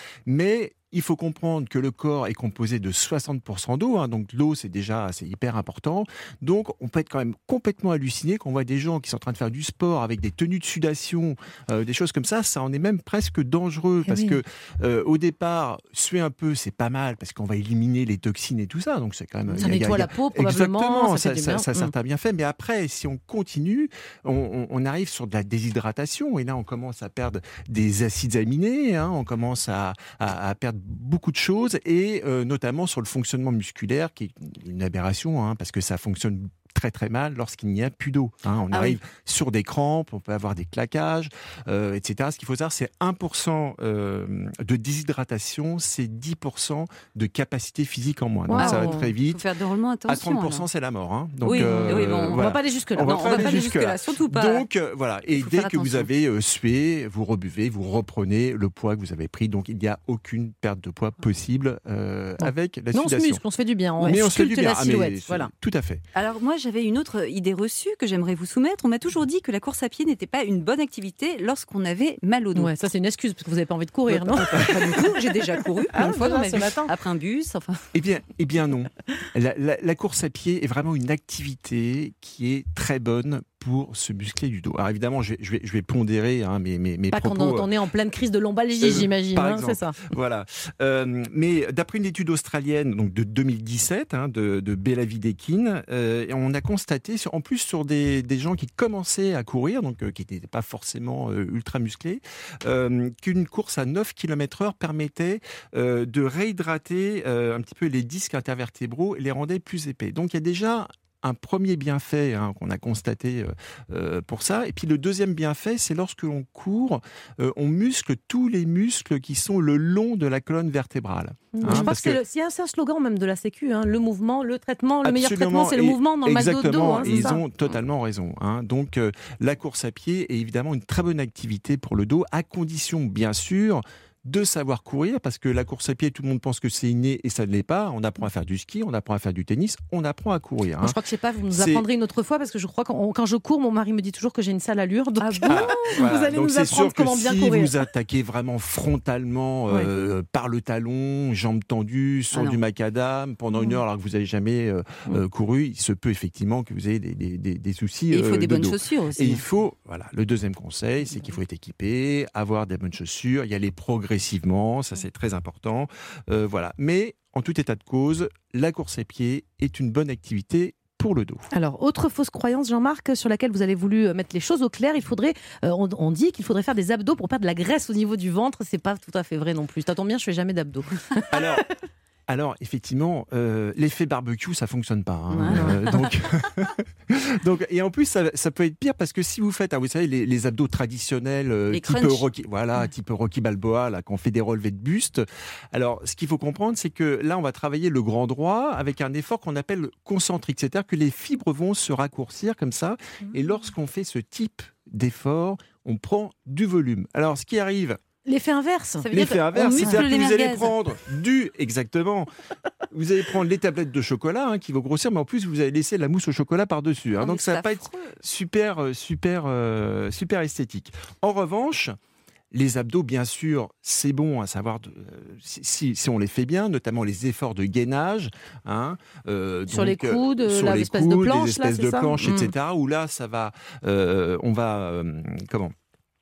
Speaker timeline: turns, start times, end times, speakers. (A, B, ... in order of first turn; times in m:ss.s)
0:00.3-0:49.4 A
0:14.0-0:14.4 B
0:19.5-0:19.8 C
0:19.6-0:21.9 B
0:38.7-0:39.0 C
0:48.5-0:49.1 B
0:48.5-0:50.7 C
0:50.1-1:03.4 A
0:51.4-0:54.6 C
0:51.5-0:53.7 B
0:55.3-0:56.1 C
1:02.4-1:05.5 B
1:04.0-1:06.0 A
1:04.0-1:04.2 C
1:06.1-1:12.7 C
1:12.6-1:15.3 B
1:14.1-1:17.8 C
1:15.9-1:16.9 B
1:17.9-1:27.7 A
1:27.1-1:30.0 B
1:28.8-2:02.2 A
2:01.6-2:07.4 B
2:01.6-2:01.9 C
2:05.0-2:21.0 A
2:07.0-2:07.7 C
2:20.8-2:27.7 B
2:21.5-2:21.8 A
2:25.2-2:26.0 C
2:25.5-2:51.5 A
2:32.3-2:32.6 C
2:38.1-2:39.4 C
2:41.1-2:41.4 C
2:51.5-3:01.2 B
3:01.3-3:01.6 A
3:02.3-3:28.0 A
3:05.3-3:06.1 C
3:05.5-3:05.8 B
3:11.7-3:12.3 C
3:28.2-3:30.0 B
3:29.0-3:30.7 C
3:29.1-3:32.3 A
3:32.9-3:42.0 A
3:37.2-3:38.2 C
3:42.5-3:55.7 A
3:49.7-3:52.5 B